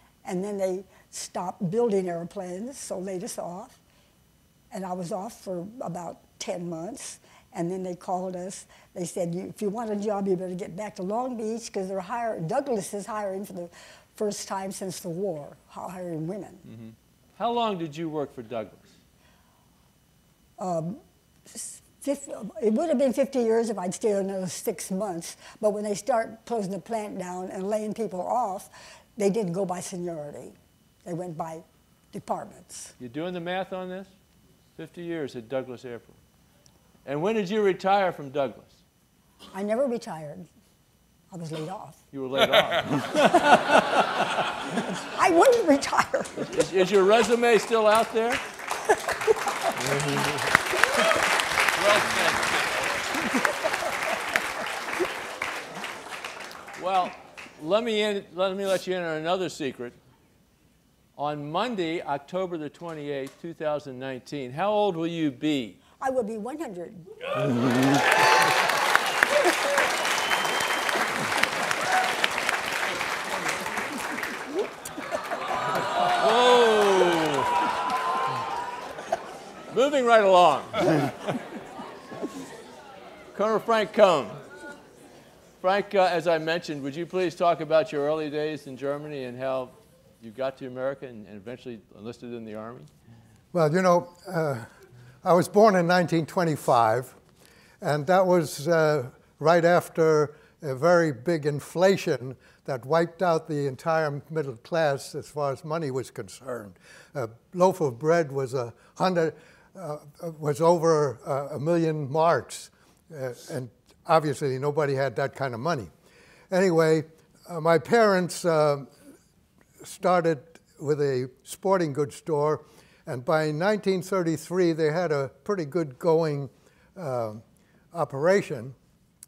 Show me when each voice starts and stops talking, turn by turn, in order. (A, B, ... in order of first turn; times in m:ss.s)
0:00.2-0:03.8 A
0:04.7-0:16.6 A
0:16.7-0:18.9 B
0:20.6-0:33.0 A
0:33.0-0:34.1 B
0:34.8-0:36.2 B
0:37.0-0:38.8 B
0:39.5-0:40.5 A
0:41.3-0:42.0 A
0:42.1-0:44.4 B
0:45.1-0:46.5 A
0:46.5-0:48.4 B
0:49.8-0:50.3 B
0:51.8-0:52.7 B
0:56.8-1:00.0 B
1:01.2-1:05.8 B
1:06.0-1:07.1 A
1:16.0-1:17.5 B
1:19.7-1:21.2 B
1:23.3-1:24.4 B
1:25.6-1:32.9 B
1:33.5-1:34.7 C
1:35.2-1:37.2 C
1:37.8-1:55.9 C
1:56.5-1:58.9 C
1:59.8-2:07.4 C
2:07.9-2:08.8 C